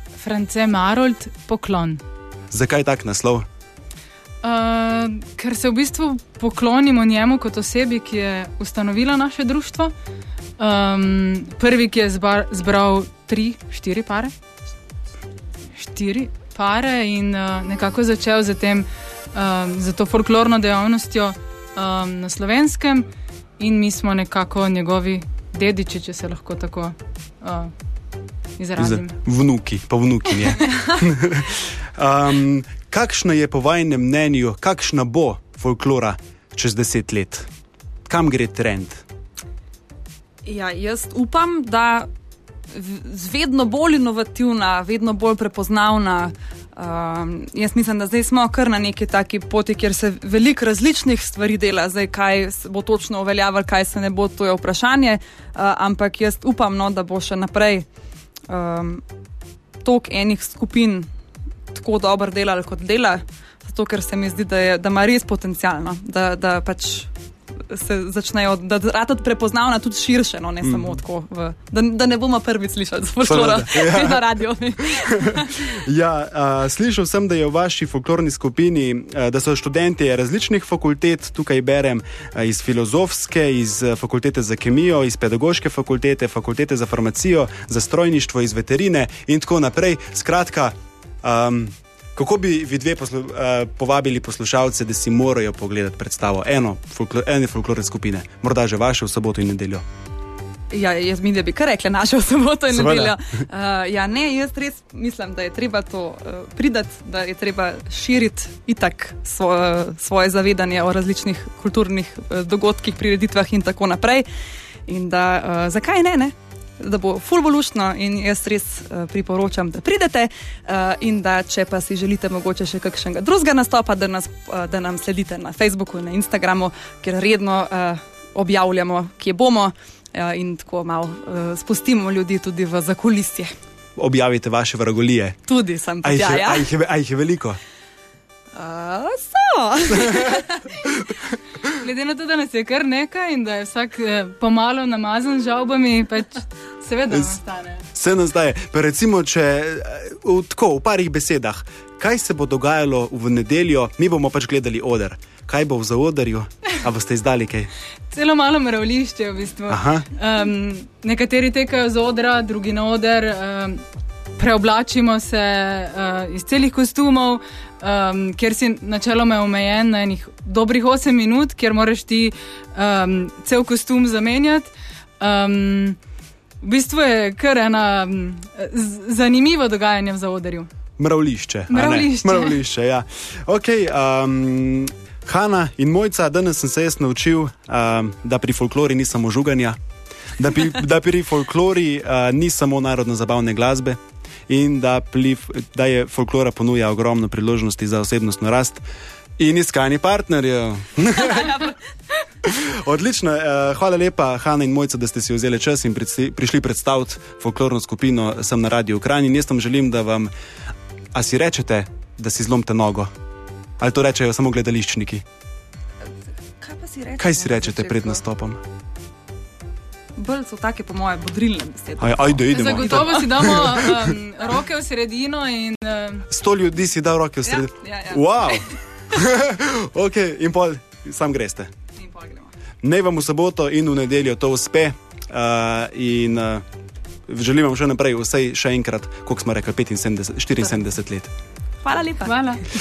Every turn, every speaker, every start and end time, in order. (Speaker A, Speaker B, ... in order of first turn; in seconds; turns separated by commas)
Speaker A: 0.2-2.0, Speaker B: 2.5-3.5, Speaker A: 4.4-9.9, Speaker A: 10.6-14.3, Speaker A: 15.8-23.1, Speaker A: 23.6-27.7, Speaker A: 28.6-29.1, Speaker B: 28.8-37.5, Speaker B: 38.1-39.0, Speaker C: 40.4-42.1, Speaker C: 42.7-57.9, Speaker C: 58.5-59.0, Speaker C: 59.8-61.1, Speaker C: 61.7-67.1, Speaker C: 67.7-75.7, Speaker B: 70.6-71.0, Speaker B: 73.2-74.2, Speaker B: 74.8-99.8, Speaker C: 100.7-114.2, Speaker B: 102.7-103.1, Speaker C: 114.9-133.5, Speaker B: 133.9-135.4, Speaker C: 135.5-136.6, Speaker B: 136.0-137.6, Speaker C: 138.5-140.7, Speaker B: 140.0-140.4, Speaker A: 141.7-147.8, Speaker B: 147.1-147.3, Speaker B: 147.9-157.7, Speaker A: 158.1-163.8, Speaker B: 159.7-160.1, Speaker A: 164.4-176.0, Speaker A: 176.6-180.7, Speaker B: 181.0-189.8, Speaker A: 181.7-182.6, Speaker B: 190.4-198.8, Speaker B: 199.4-201.6, Speaker C: 201.3-201.7, Speaker B: 202.4-210.3, Speaker B: 211.1-213.1, Speaker B: 213.8-215.2, Speaker C: 216.6-218.2, Speaker B: 217.2-218.6, Speaker C: 220.2-223.7, Speaker B: 222.0-224.1, Speaker A: 222.5-226.3, Speaker B: 226.3-231.7, Speaker C: 227.4-228.7, Speaker C: 231.9-232.5, Speaker B: 232.8-236.6, Speaker B: 237.3-241.3, Speaker C: 241.8-242.6, Speaker A: 242.2-242.6